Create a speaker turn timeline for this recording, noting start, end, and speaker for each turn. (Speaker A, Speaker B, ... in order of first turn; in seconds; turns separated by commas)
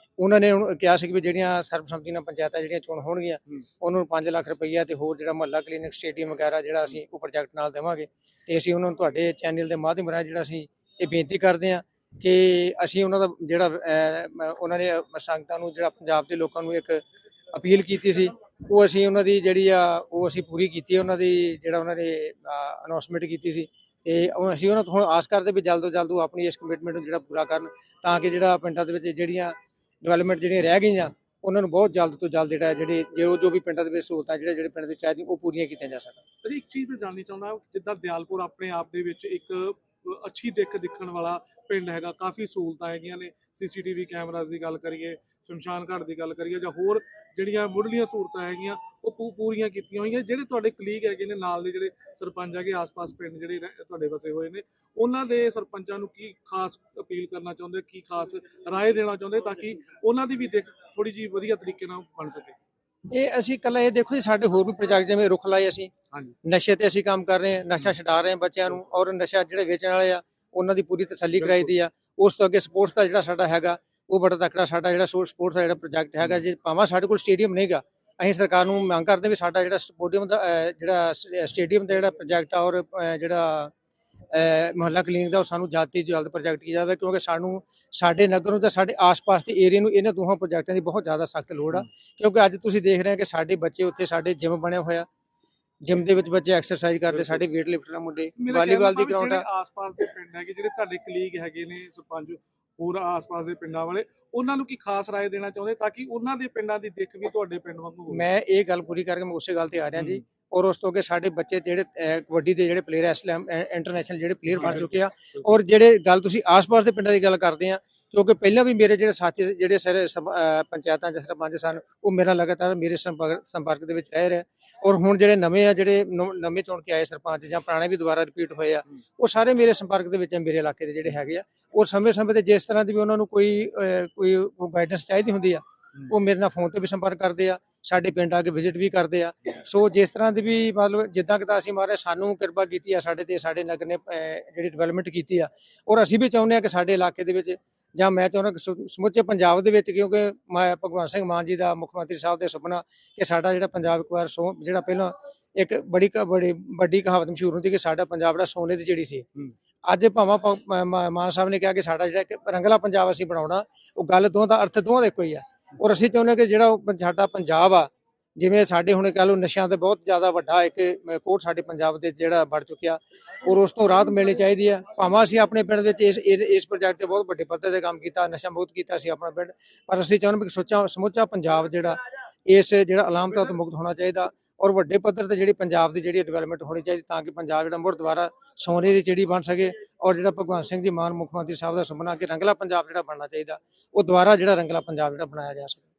Speaker A: 0.2-36.2, Speaker B: 36.4-62.6, Speaker A: 63.1-65.9, Speaker A: 66.4-83.7, Speaker B: 71.4-71.7, Speaker A: 84.3-95.0, Speaker A: 95.8-99.5, Speaker B: 98.4-108.2, Speaker A: 108.1-159.3, Speaker B: 110.0-110.2, Speaker B: 114.5-114.9, Speaker A: 159.8-195.9